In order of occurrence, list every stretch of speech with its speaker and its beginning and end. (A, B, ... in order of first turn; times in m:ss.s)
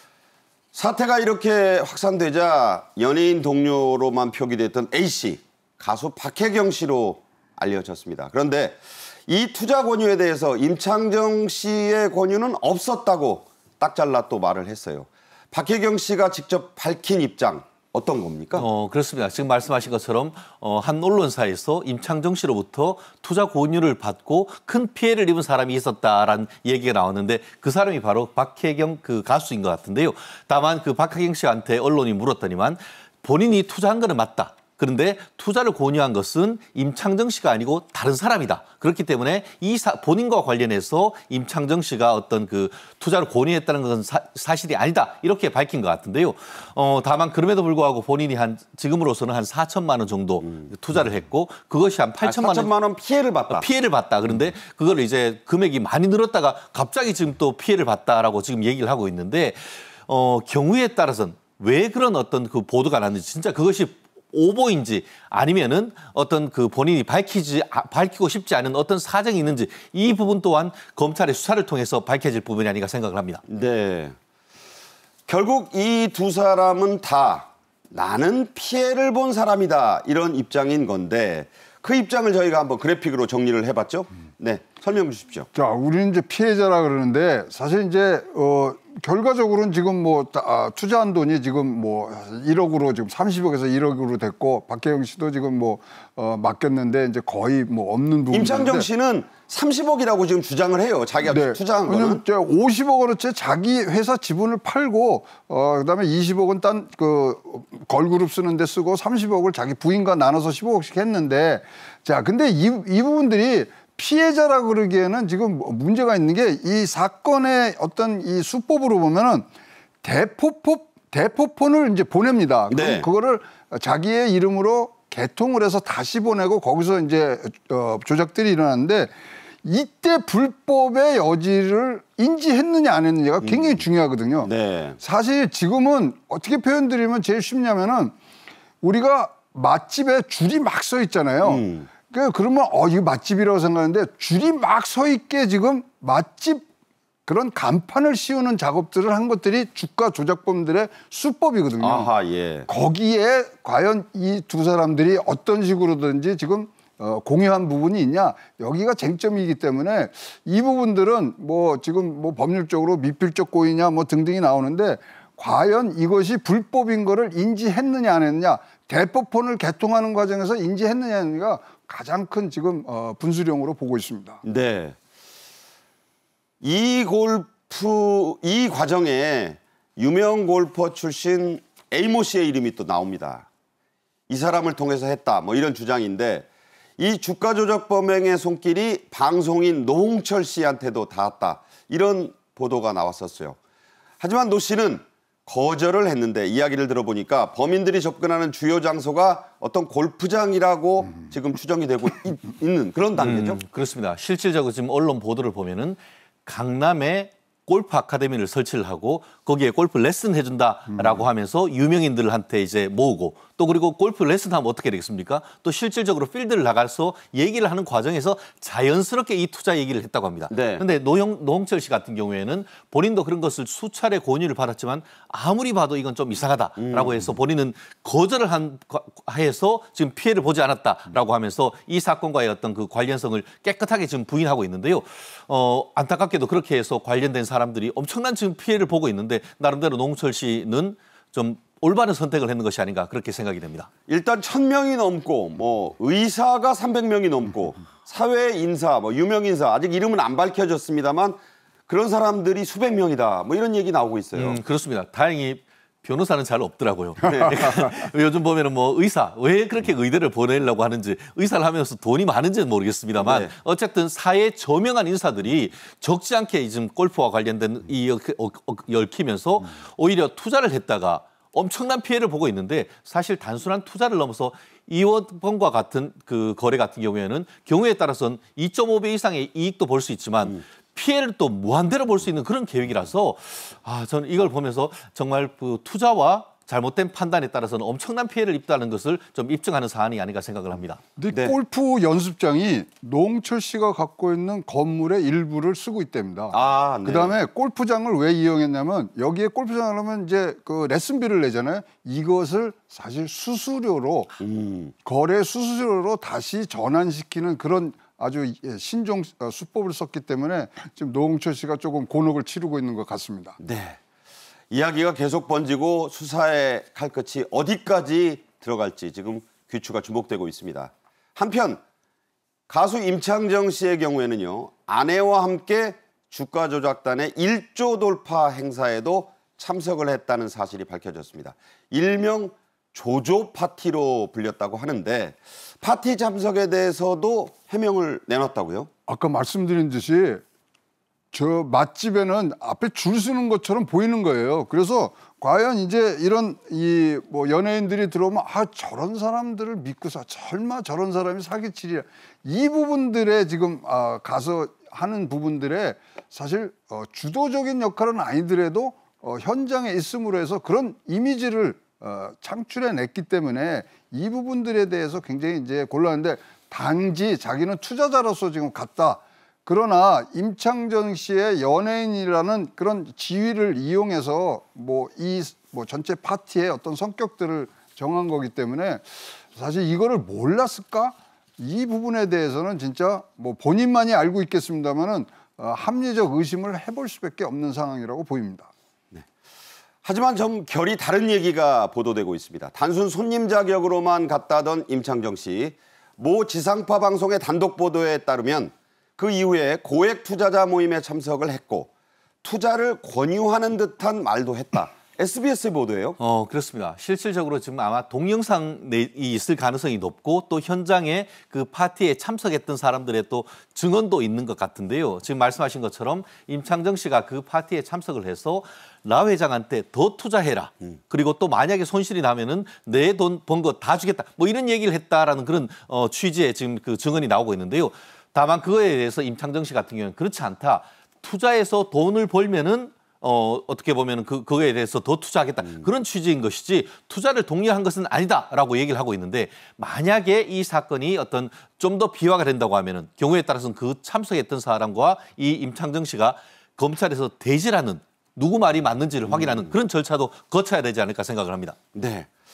0:00.7-0:18.6 A
0:18.6-0:52.7 B
0:50.4-0:50.7 A
0:52.2-0:53.6 A
0:53.5-1:13.4 B
1:13.5-1:14.1 A
1:15.3-1:25.5 A
1:25.5-1:38.9 C
1:38.3-1:42.2 A
1:41.2-1:59.4 C
2:00.0-2:18.1 C
2:02.7-2:03.1 A
2:13.4-2:13.7 A
2:14.4-2:15.0 A
2:18.8-2:26.7 C
2:21.4-2:21.9 A
2:27.3-2:32.1 C
2:31.8-2:32.7 A
2:32.7-2:54.4 C
2:54.4-2:55.0 A
2:56.6-3:03.5 A
3:04.3-3:06.4 A
3:07.0-3:13.6 A
3:14.2-3:23.6 A
3:23.2-4:03.9 B
3:40.5-3:40.8 A
3:46.8-3:47.3 A
4:04.1-4:14.6 A
4:14.4-4:51.0 B
4:17.2-4:17.9 A
4:23.2-4:23.5 A
4:51.2-5:04.3 C
4:56.5-4:57.4 A
5:04.4-5:04.9 A
5:05.0-5:13.6 C
5:13.6-5:14.0 A
5:14.7-5:21.8 A
5:22.7-5:38.9 A
5:39.1-5:40.4 C
5:41.3-6:28.7 C
6:30.0-6:41.9 A
6:42.4-6:46.2 A
6:46.2-7:31.8 B
7:29.3-7:29.7 A
7:31.9-7:32.3 A